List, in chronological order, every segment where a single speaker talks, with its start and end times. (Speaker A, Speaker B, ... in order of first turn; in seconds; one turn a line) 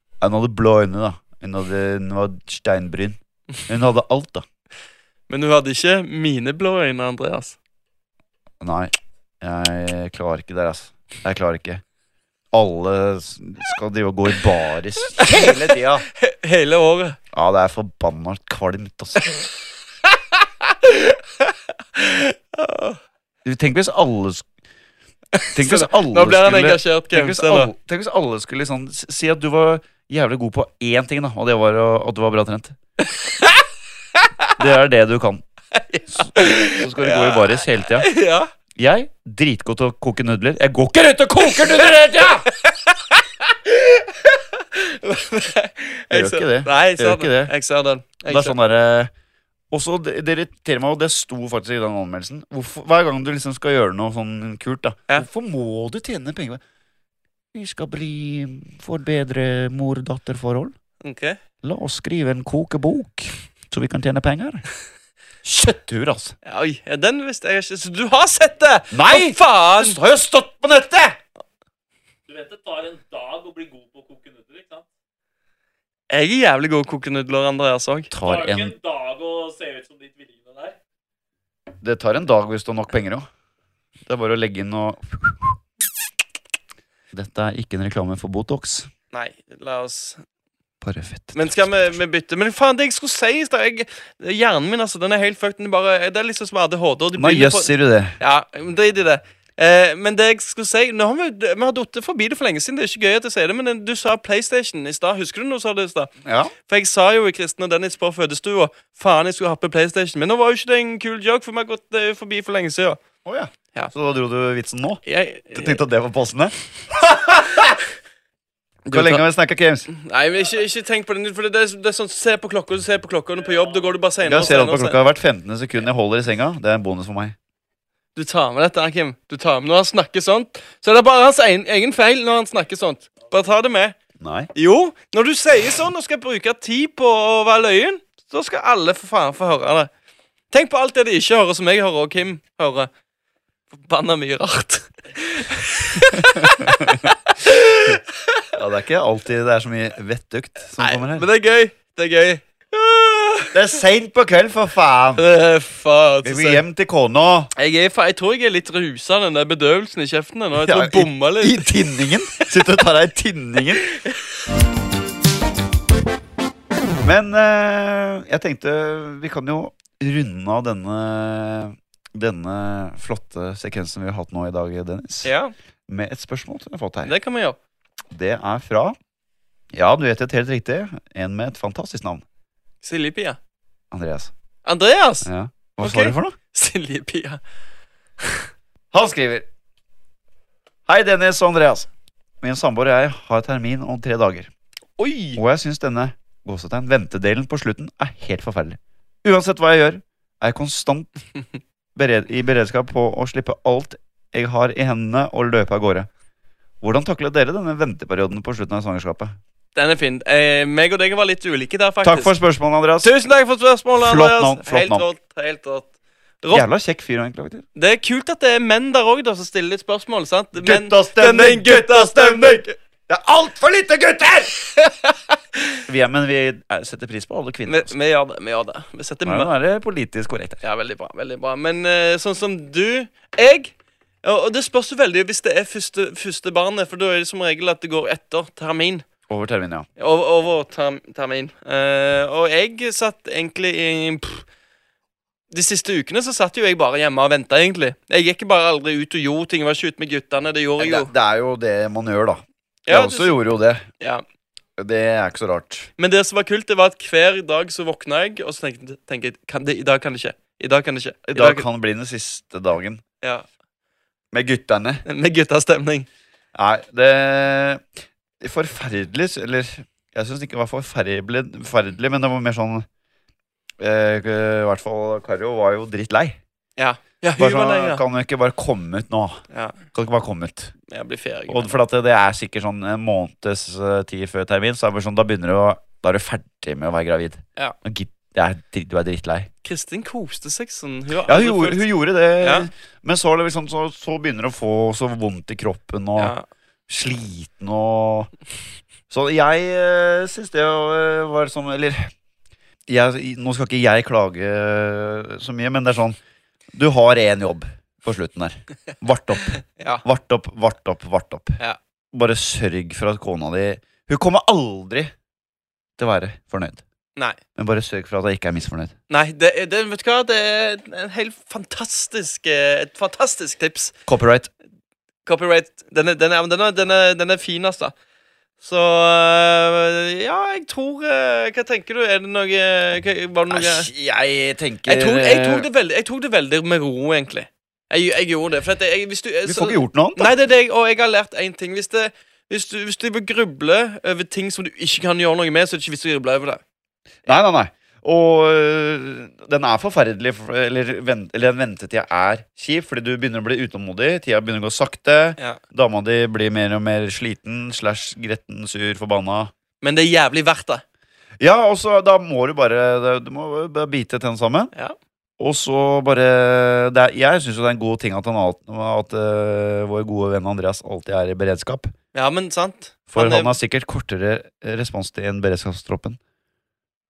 Speaker A: 0.2-4.4
Speaker B: 5.3-7.6
Speaker A: 8.6-11.8
Speaker A: 12.5-16.0
Speaker B: 15.1-17.2
Speaker A: 17.3-19.3
Speaker B: 20.3-23.0
Speaker A: 23.4-24.4
Speaker B: 25.3-27.7
Speaker A: 25.5-32.7
Speaker B: 33.0-34.6
Speaker A: 34.6-35.4
Speaker B: 35.8-38.5
Speaker A: 36.1-38.1
Speaker A: 38.8-42.5
Speaker B: 42.5-48.5
Speaker A: 46.1-47.5
Speaker A: 48.3-49.1
Speaker A: 49.7-56.6
Speaker A: 57.5-60.7
Speaker B: 61.0-61.4
Speaker A: 61.6-64.6
Speaker A: 65.4-66.3
Speaker B: 66.4-70.0
Speaker A: 68.9-71.2
Speaker C: 72.3-74.8
Speaker B: 76.1-78.1
Speaker A: 78.1-78.7
Speaker C: 78.2-80.7
Speaker A: 81.8-83.2
Speaker A: 84.0-85.6
Speaker A: 87.1-88.9
Speaker B: 89.1-90.2
Speaker A: 90.8-92.0
Speaker B: 91.3-106.1
Speaker A: 97.2-98.2
Speaker A: 106.2-106.5
Speaker B: 106.7-113.0
Speaker A: 113.2-116.5
Speaker B: 115.0-115.8
Speaker B: 117.1-117.8
Speaker A: 117.4-117.7
Speaker B: 118.8-119.2
Speaker A: 118.9-119.9
Speaker B: 119.9-125.0
Speaker A: 124.2-127.3
Speaker B: 128.2-133.9
Speaker A: 134.2-134.5
Speaker B: 134.5-139.9
Speaker B: 140.5-142.9
Speaker B: 143.7-148.4
Speaker A: 146.1-147.1
Speaker A: 148.5-151.2
Speaker B: 150.8-153.5
Speaker A: 153.5-155.2
Speaker B: 155.2-156.6
Speaker A: 156.2-157.5
Speaker B: 157.5-161.7
Speaker A: 160.6-163.9
Speaker B: 163.8-164.2
Speaker A: 167.0-175.3
Speaker B: 175.2-175.5
Speaker A: 175.9-177.1
Speaker B: 177.0-177.6
Speaker A: 178.1-178.9
Speaker A: 179.7-182.2
Speaker B: 182.8-183.4
Speaker A: 183.9-184.3
Speaker B: 184.6-185.3
Speaker A: 185.2-186.3
Speaker B: 185.8-187.4
Speaker A: 188.9-189.5
Speaker A: 190.9-191.9
Speaker A: 192.4-194.5
Speaker B: 195.0-195.4
Speaker A: 195.3-201.1
Speaker A: 201.9-206.1
Speaker A: 206.8-209.3
Speaker B: 209.7-212.3
Speaker A: 212.0-213.1
Speaker B: 213.0-215.9
Speaker A: 213.9-215.1
Speaker A: 216.5-217.6
Speaker B: 217.8-222.8
Speaker A: 220.6-224.5
Speaker B: 224.7-225.8
Speaker A: 225.9-227.9
Speaker B: 227.7-229.5
Speaker A: 229.2-230.6
Speaker B: 230.6-239.1
Speaker A: 239.3-239.8
Speaker B: 240.0-244.4
Speaker B: 245.5-251.1
Speaker A: 250.8-253.8
Speaker B: 252.8-253.4
Speaker A: 254.8-255.9
Speaker B: 256.0-261.6
Speaker A: 261.3-263.0
Speaker A: 264.3-265.0
Speaker B: 265.1-266.1
Speaker A: 266.5-267.8
Speaker A: 268.4-272.9
Speaker A: 273.8-276.4
Speaker B: 276.8-278.0
Speaker A: 277.4-279.4
Speaker B: 279.5-279.8
Speaker A: 279.9-280.7
Speaker B: 280.9-281.8
Speaker A: 281.5-289.5
Speaker B: 289.6-291.9
Speaker A: 291.2-296.3
Speaker B: 292.4-292.7
Speaker B: 296.2-296.4
Speaker A: 296.9-298.3
Speaker A: 299.1-302.1
Speaker A: 302.9-306.2
Speaker A: 306.7-311.6
Speaker B: 309.7-310.0
Speaker A: 312.1-315.1
Speaker A: 316.0-316.8
Speaker A: 317.6-318.9
Speaker B: 319.1-323.9
Speaker A: 324.1-324.5
Speaker B: 325.2-327.9
Speaker B: 328.6-333.9
Speaker A: 333.5-335.7
Speaker B: 334.9-346.6
Speaker A: 339.4-340.3
Speaker A: 347.2-359.5
Speaker B: 359.8-360.8
Speaker A: 361.4-364.7
Speaker A: 365.4-371.9
Speaker B: 372.1-373.5
Speaker A: 373.1-376.2